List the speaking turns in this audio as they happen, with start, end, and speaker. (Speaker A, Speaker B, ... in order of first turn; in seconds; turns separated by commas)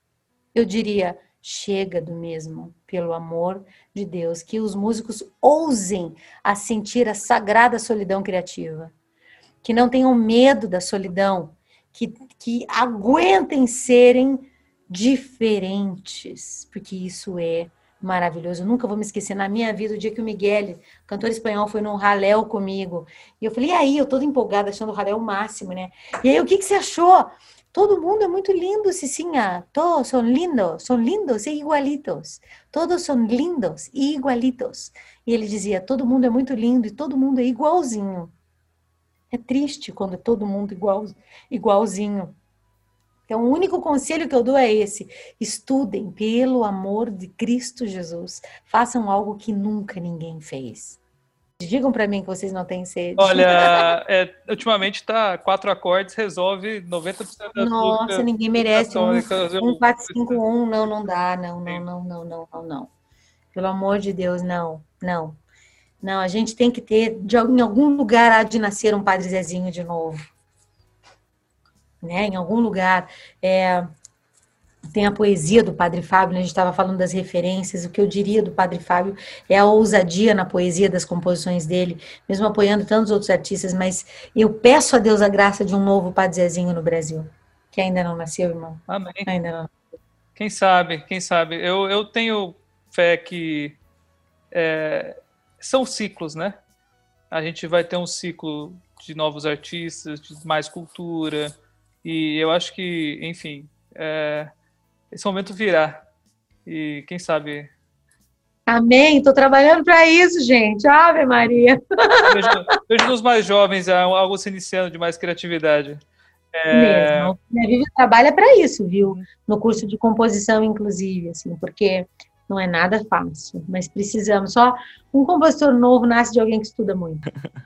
Speaker A: 0.5-8.9, Speaker A: 9.6-38.3, Speaker A: 39.3-42.3, Speaker A: 43.3-51.0, Speaker A: 51.6-53.8, Speaker B: 53.2-60.4, Speaker A: 57.6-62.9, Speaker A: 63.5-65.4, Speaker A: 66.0-70.3, Speaker A: 72.0-73.9, Speaker A: 74.9-89.7, Speaker B: 88.9-89.3, Speaker B: 90.3-93.8, Speaker B: 94.5-96.6, Speaker B: 97.3-104.5, Speaker B: 105.1-106.0, Speaker B: 106.7-107.7, Speaker A: 108.7-112.2, Speaker B: 112.2-116.0, Speaker B: 116.5-117.3, Speaker A: 116.7-127.2